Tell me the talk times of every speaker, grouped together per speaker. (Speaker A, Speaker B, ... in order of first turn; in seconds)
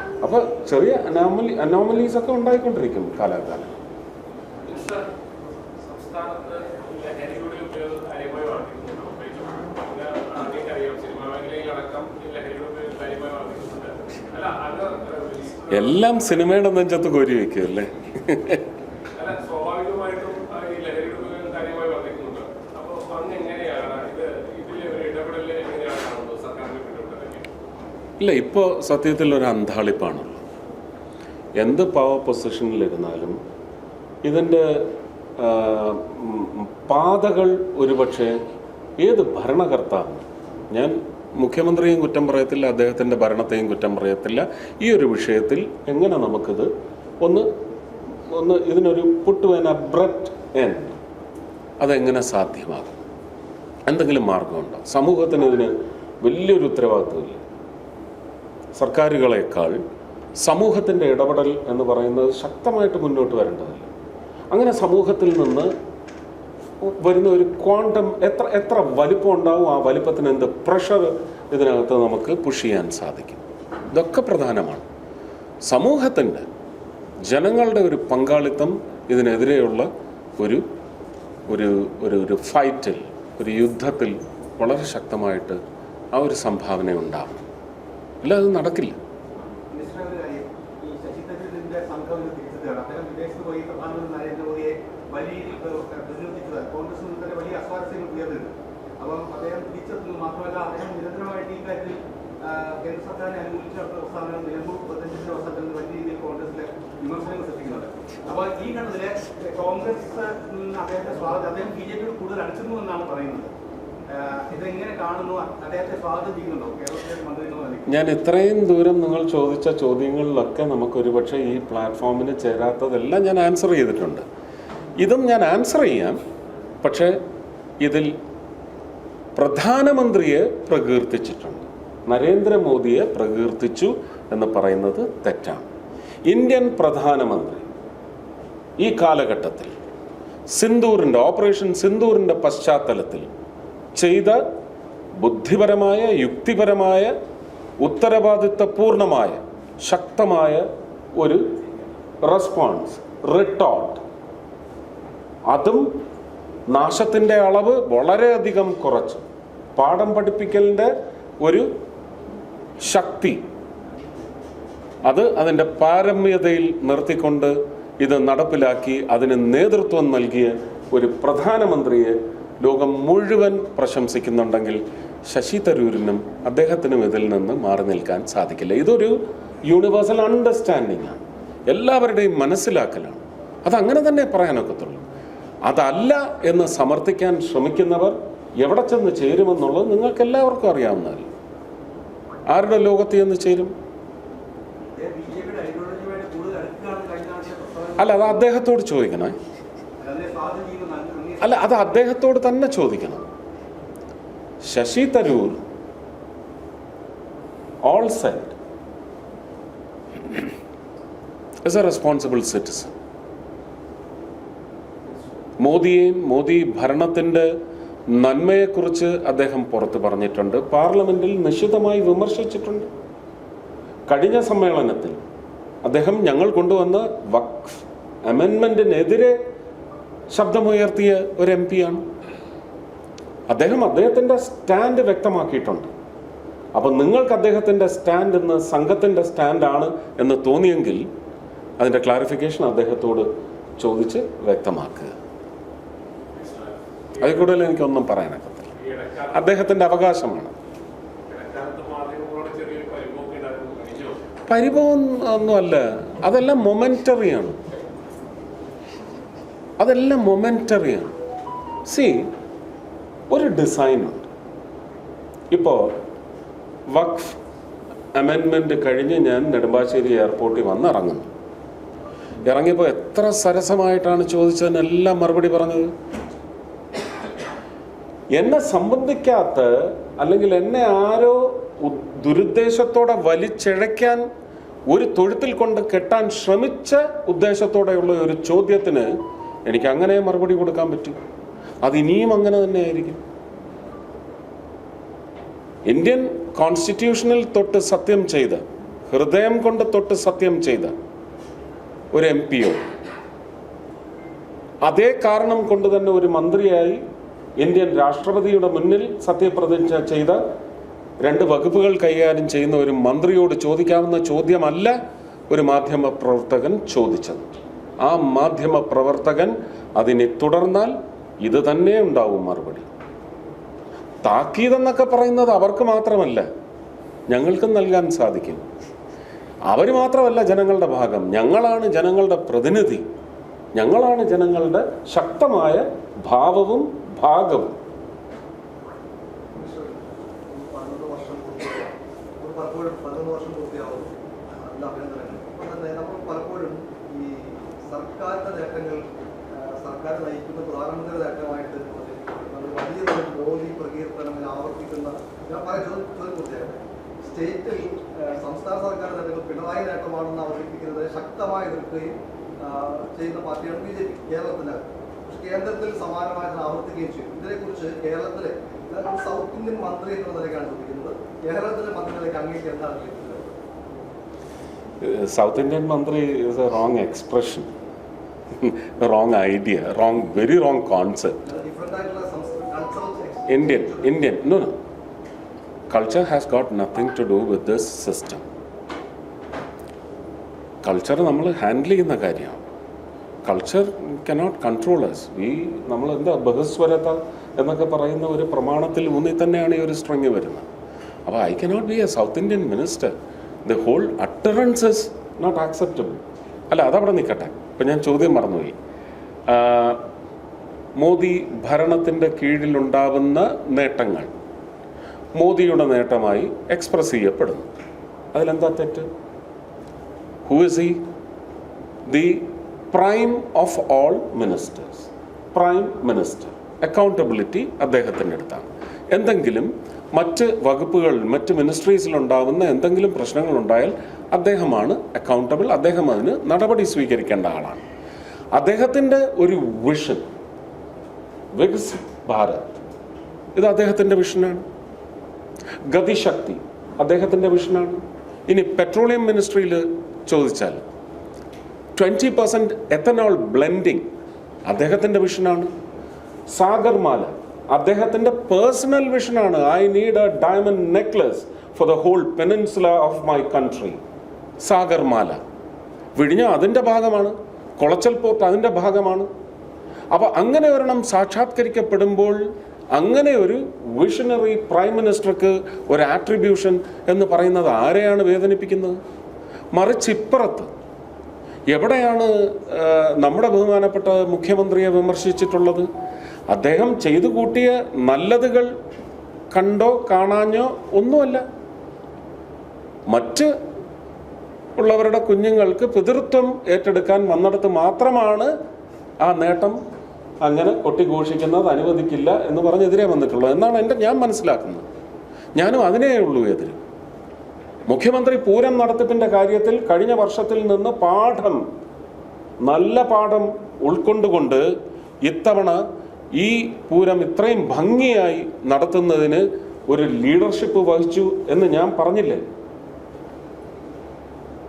Speaker A: 0.2-3.7, 15.7-18.6, 28.2-30.4, 31.6-33.4, 34.2-38.4, 39.0-46.7, 47.2-47.5, 48.3-51.0, 51.8-53.0, 53.9-57.4, 58.8-59.8, 60.4-63.9, 64.5-65.7, 66.8-74.8, 75.7-76.5, 77.3-80.6, 81.5-85.6, 86.1-87.4, 88.2-89.0, 117.9-124.2, 125.0-126.2, 126.8-127.2, 127.8-128.1, 129.4-135.7, 136.3-137.7, 138.8-139.7, 140.5-143.3, 143.9-144.4, 145.2-147.1, 147.8-150.7, 151.2-151.4, 152.2-154.0, 155.5-155.9, 156.7-159.2, 159.8-161.7, 162.8-163.4, 165.1-185.1, 185.7-191.3, 192.5-193.7, 198.0-199.4, 201.4-203.3, 204.6-205.6, 207.8-208.6, 211.6-212.9, 215.6-217.5, 218.1-222.9, 224.1-225.2, 225.8-229.4, 230.3-232.0, 233.5-235.9, 236.7-241.1, 241.8-243.3, 243.8-245.2, 247.2-248.7, 249.3-250.5, 254.5-257.6, 259.8-261.1, 261.9-262.3, 263.3-264.3, 265.5-265.9, 266.9-267.4, 268.1-271.3, 272.4-275.9, 278.3-284.2, 284.9-289.1, 289.7-291.2, 291.8-293.2, 295.9-301.0, 302.1-302.9, 304.8-307.0, 307.6-310.4, 311.2-314.9, 315.5-322.9, 324.2-326.5, 327.3-328.6, 329.7-333.1, 333.7-337.8, 375.0-377.7, 378.5-381.4, 383.5-384.8, 385.9-388.4, 390.8-392.6, 393.4-400.7, 401.3-403.1, 403.6-408.8, 409.5-410.0, 411.0-414.3, 415.4-417.7, 418.3-419.1, 420.4-421.0, 422.1-437.8, 438.5-440.3, 441.6-442.6, 443.6-444.6, 445.9-450.8, 452.0-454.1, 454.6-455.7, 456.5-464.0, 464.6-465.4, 466.2-469.3, 470.1-472.4, 472.9-479.0, 479.7-480.7, 481.7-485.9, 486.5-488.7, 489.5-491.4, 493.1-493.5, 494.8-498.5, 499.2-499.8, 500.4-504.9, 505.6-506.8, 507.9-511.6, 512.6-514.7, 515.2-515.8, 516.4-522.4
Speaker B: 4.7-5.1, 5.8-16.3, 19.2-27.5, 246.3-247.6, 248.8-249.6, 251.3-254.2
Speaker C: 89.7-113.5, 114.1-118.0, 194.9-198.4, 200.0-201.8
Speaker D: 339.5-373.5, 381.4-384.2